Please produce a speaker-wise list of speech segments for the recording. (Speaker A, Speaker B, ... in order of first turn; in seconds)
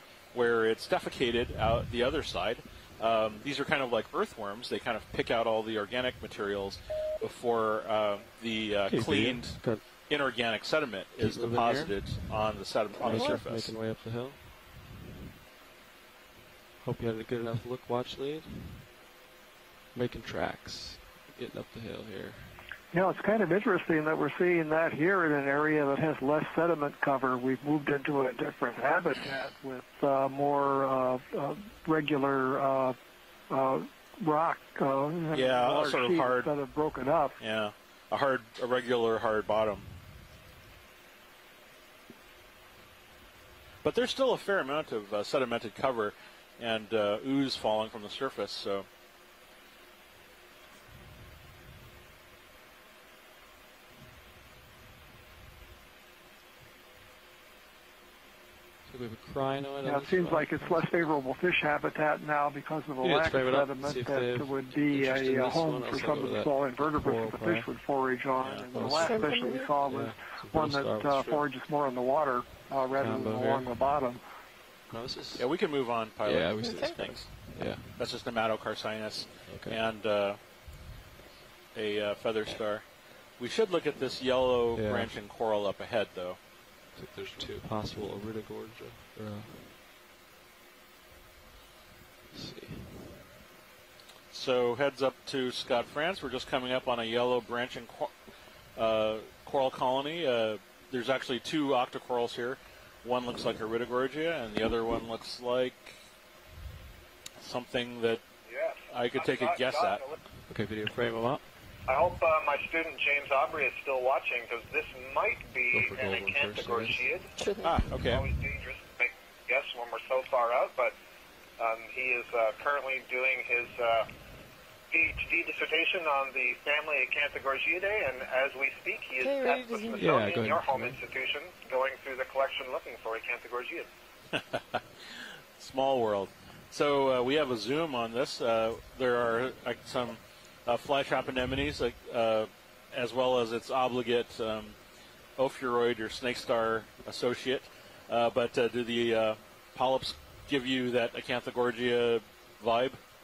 Speaker A: 0.3-13.7, 35.3-36.5, 37.4-39.9, 43.8-48.9, 68.4-68.7, 75.3-80.4, 81.7-86.4, 94.3-98.1, 98.8-106.0, 107.4-108.2, 108.9-110.0, 117.6-118.2, 134.3-144.8, 145.4-153.0
Speaker B: 8.9-9.9, 11.2-12.4, 13.0-14.9, 16.8-18.9, 19.9-22.6, 58.8-60.9, 63.0-67.7, 68.7-69.2, 69.8-71.5, 72.9-73.8, 74.9-75.6, 76.2-78.0, 79.5-79.8, 84.7-85.2, 86.9-89.8, 92.3-93.2, 110.5-111.4, 115.7-117.1, 129.9-131.0
Speaker C: 22.9-33.0, 33.5-37.4, 59.8-74.2
Speaker D: 68.8-69.8, 76.6-77.2, 117.3-117.9, 129.2-130.6
Speaker E: 108.5-110.2, 111.9-117.3, 118.0-120.9, 121.6-124.1, 124.9-133.9